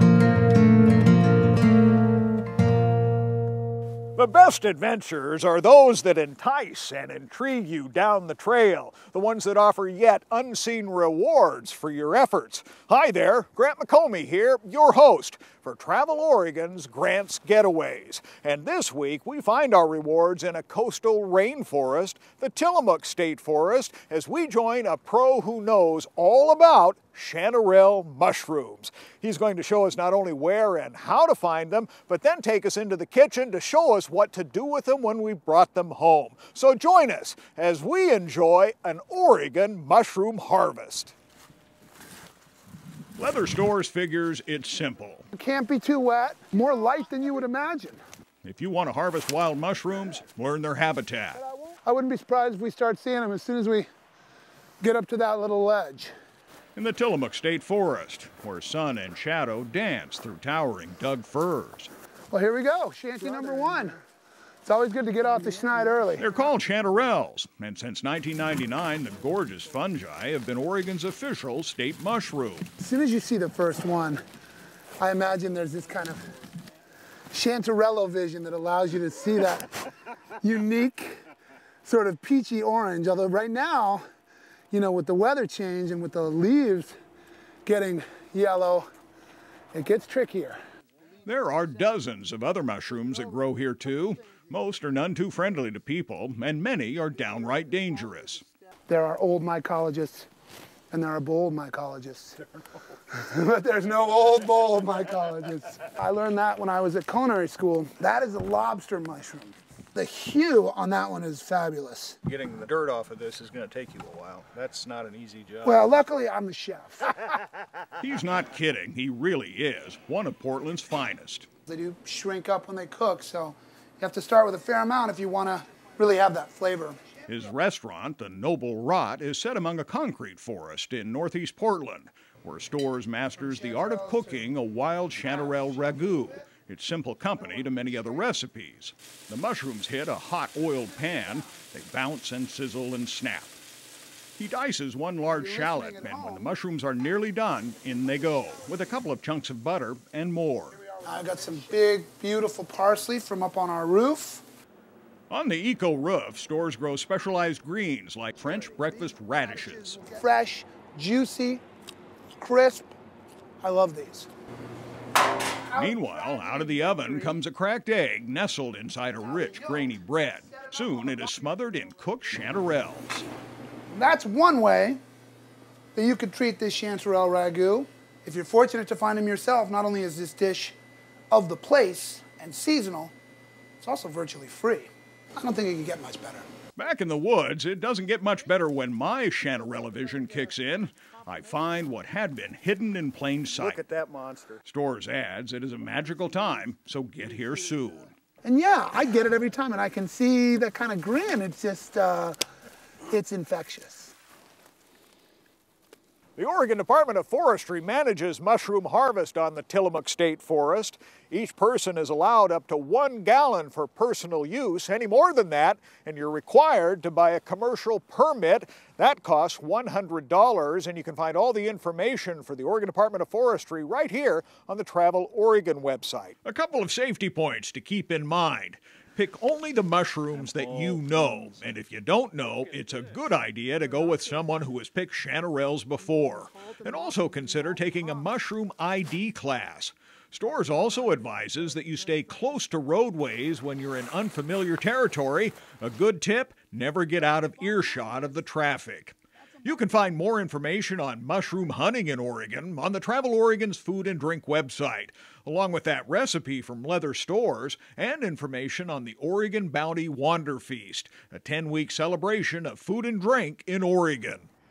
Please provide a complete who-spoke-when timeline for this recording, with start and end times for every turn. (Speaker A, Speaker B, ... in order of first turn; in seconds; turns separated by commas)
Speaker A: 4.2-41.1, Speaker A: 43.2-45.2, Speaker B: 45.3-48.0, Speaker A: 48.4-51.4, Speaker B: 51.4-53.9, Speaker B: 54.8-56.1, Speaker A: 56.8-61.9, Speaker B: 62.3-64.0, Speaker B: 64.7-66.3, Speaker A: 66.2-72.7, Speaker B: 72.8-74.2, Speaker B: 75.0-76.2, Speaker B: 77.3-79.7, Speaker B: 80.4-81.2, Speaker B: 81.8-84.0, Speaker B: 84.7-87.0, Speaker B: 87.7-88.9, Speaker B: 89.7-90.6, Speaker A: 91.2-98.5, Speaker B: 98.9-100.3, Speaker B: 100.9-102.5, Speaker B: 103.1-112.2, Speaker C: 112.2-116.0, Speaker B: 115.6-117.2, Speaker A: 118.0-121.5, Speaker B: 121.7-127.1, Speaker A: 127.3-143.6, Speaker B: 133.6-134.2, Speaker A: 144.4-150.8, Speaker B: 145.3-146.6, Speaker B: 151.0-154.4, Speaker A: 155.3-160.1, Speaker B: 160.0-161.6, Speaker B: 162.4-162.9, Speaker B: 163.6-164.3, Speaker B: 165.7-167.3, Speaker A: 165.7-173.1, Speaker B: 173.9-175.0, Speaker B: 175.9-180.8, Speaker B: 181.3-183.1, Speaker B: 183.8-186.5, Speaker A: 186.8-193.8, Speaker C: 193.6-194.6, Speaker A: 194.6-198.1, Speaker B: 198.4-202.4, Speaker B: 203.1-204.1, Speaker A: 206.4-264.5, Speaker C: 230.5-231.4